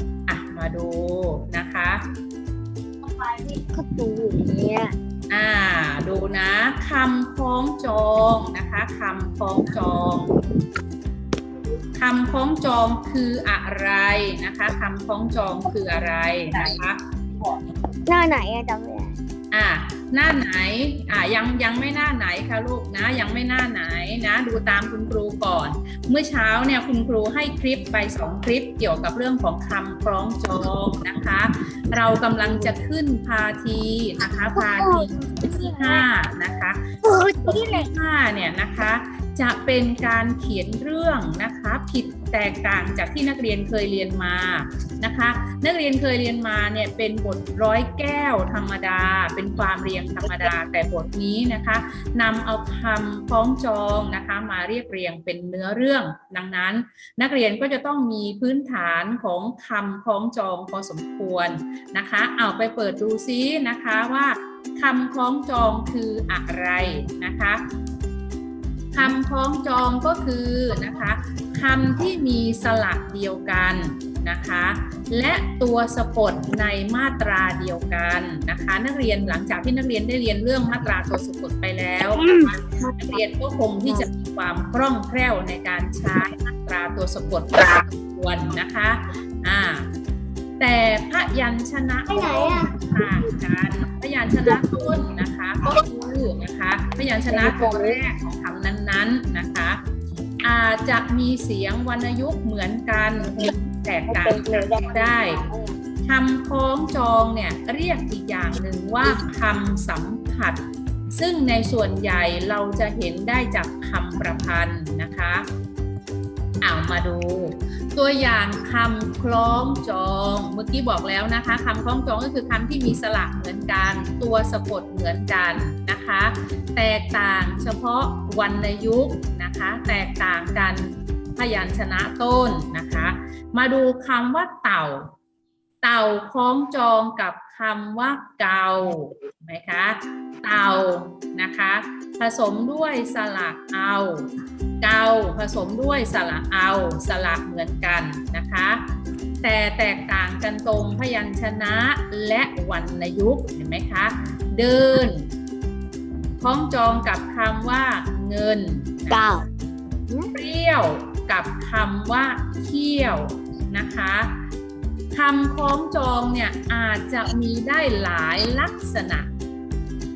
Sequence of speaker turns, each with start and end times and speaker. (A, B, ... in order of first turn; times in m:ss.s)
0:00.3-0:02.0 A
0:03.2-0:04.9 B
0:05.3-0:10.3 A
0:12.0-0:17.0 A
0:18.1-0:19.2 B
0:19.5-1:07.6 A
0:34.6-0:36.0 B
0:37.0-0:37.9 B
1:08.9-1:29.9 A
1:22.2-1:23.0 B
1:30.6-1:39.8 A
1:32.1-1:32.9 B
1:40.4-1:45.4 A
1:46.0-1:55.4 A
1:56.6-2:15.1 A
2:15.8-2:24.2 A
2:24.8-2:28.8 A
2:29.4-2:35.2 A
2:36.4-2:39.3 A
2:39.1-2:39.4 B
2:40.3-2:44.3 A
2:45.1-2:49.3 A